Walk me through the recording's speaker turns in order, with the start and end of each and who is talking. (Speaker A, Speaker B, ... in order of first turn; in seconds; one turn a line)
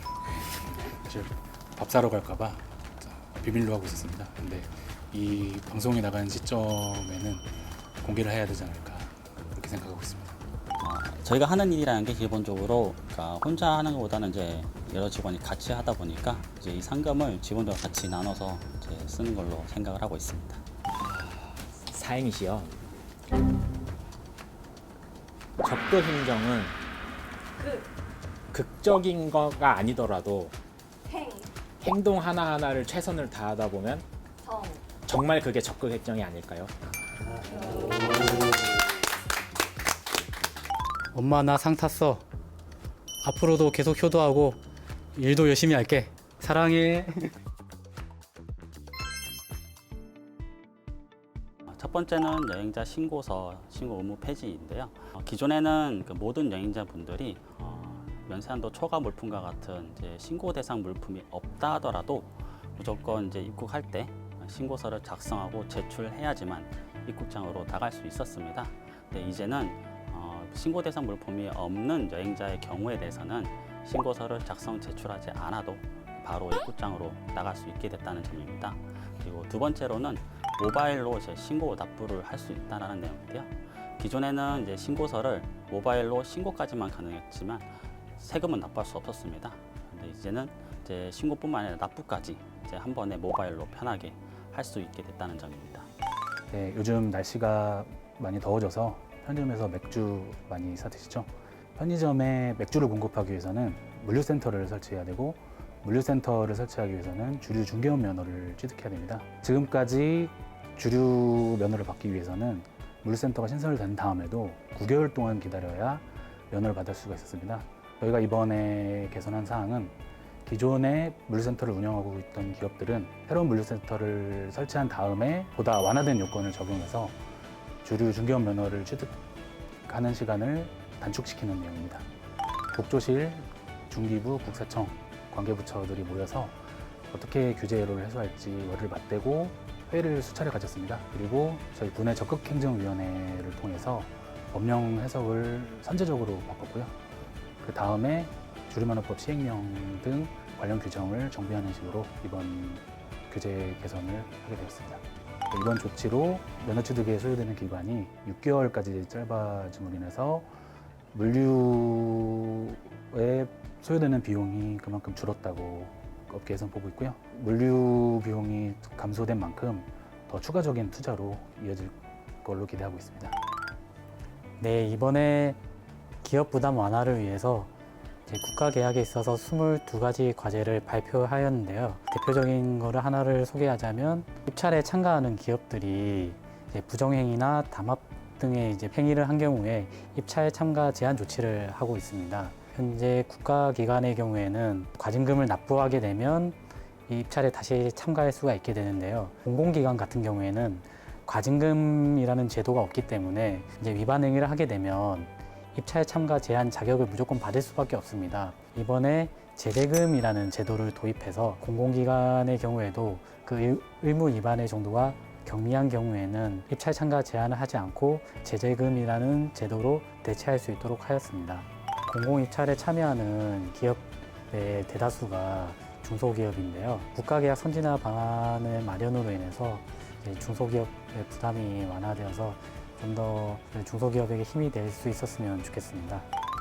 Speaker A: 0.5-7.5
Speaker A: 8.0-10.4
Speaker B: 10.8-20.6
Speaker C: 21.1-22.9
Speaker C: 25.6-26.8
Speaker D: 27.6-27.9
Speaker C: 28.5-30.6
Speaker D: 31.1-31.5
Speaker C: 31.8-34.1
Speaker D: 34.4-34.9
Speaker C: 35.0-36.7
Speaker D: 37.5-38.3
Speaker E: 41.1-42.3
Speaker E: 43.2-44.6
Speaker E: 45.1-47.3
Speaker B: 51.7-95.9
Speaker A: 96.5-127.2
Speaker A: 127.8-129.2
Speaker A: 129.9-132.1
Speaker A: 132.7-146.9
Speaker A: 147.6-160.5
Speaker A: 161.1-173.4
Speaker E: 174.6-175.6
Speaker E: 176.2-177.7
Speaker E: 178.3-236.3